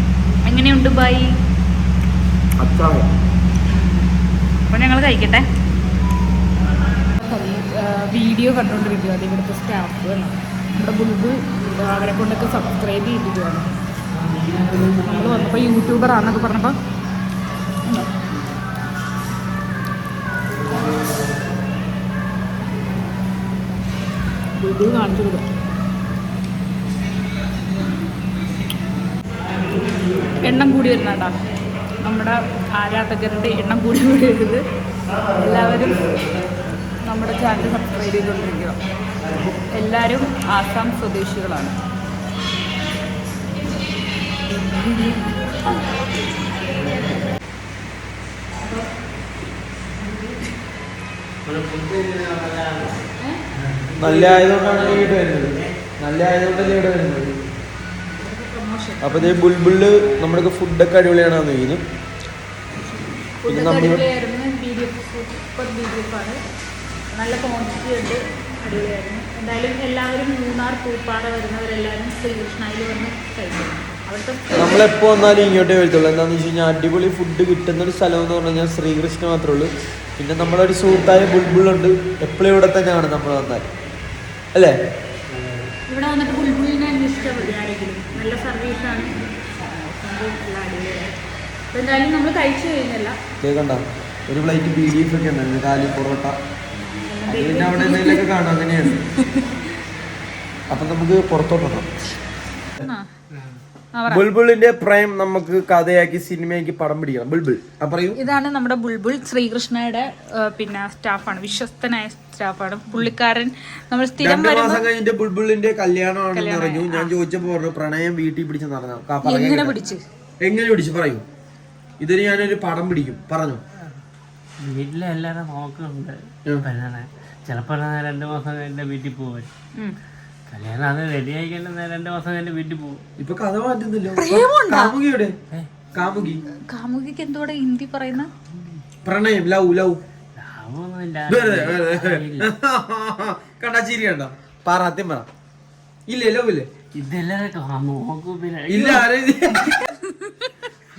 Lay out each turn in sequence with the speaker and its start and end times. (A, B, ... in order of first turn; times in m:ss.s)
0:00.4-0:01.3 A
0:02.6-0:03.1 B
0:03.7-0:04.1 A
0:04.6-0:05.4 A
0:07.2-0:13.7 A
0:14.1-0:15.7 C
0:15.0-0:16.8 A
0:17.8-0:18.1 A
0:20.8-0:21.2 C
0:24.6-0:25.5 A
0:30.4-0:31.4 A
0:32.0-0:34.6 A
0:35.3-0:36.1 A
0:37.0-0:38.8 A
0:39.7-0:41.7 A
0:44.6-0:45.9 A
0:46.7-0:47.2 C
0:50.0-0:50.4 A
0:51.4-0:53.0 C
0:53.6-0:55.6 C
0:54.0-0:57.4 B
0:58.1-0:59.4 A
0:59.0-1:01.8 B
1:03.4-1:06.4 A
1:03.5-1:04.0 B
1:07.1-1:14.5 A
1:14.5-1:23.7 B
1:25.3-1:25.7 C
1:25.9-1:31.2 A
1:31.7-1:33.2 A
1:33.4-1:36.4 B
1:37.0-1:38.2 A
1:37.2-1:39.0 B
1:39.2-1:39.4 A
1:40.7-1:41.9 B
1:42.8-1:43.1 A
1:44.0-1:44.3 A
1:44.1-1:48.2 B
1:48.1-1:54.8 A
1:54.2-1:59.7 B
1:56.3-1:57.1 A
1:59.2-2:00.0 A
2:00.4-2:01.2 B
2:02.0-2:03.6 B
2:04.6-2:09.5 C
2:10.5-2:13.0 C
2:13.2-2:15.4 B
2:14.2-2:15.0 A
2:15.5-2:15.8 C
2:15.9-2:16.4 B
2:16.7-2:18.3 A
2:19.0-2:20.0 B
2:20.4-2:22.5 C
2:21.3-2:25.3 B
2:26.1-2:26.7 B
2:26.9-2:29.1 C
2:28.7-2:29.7 B
2:29.6-2:30.5 A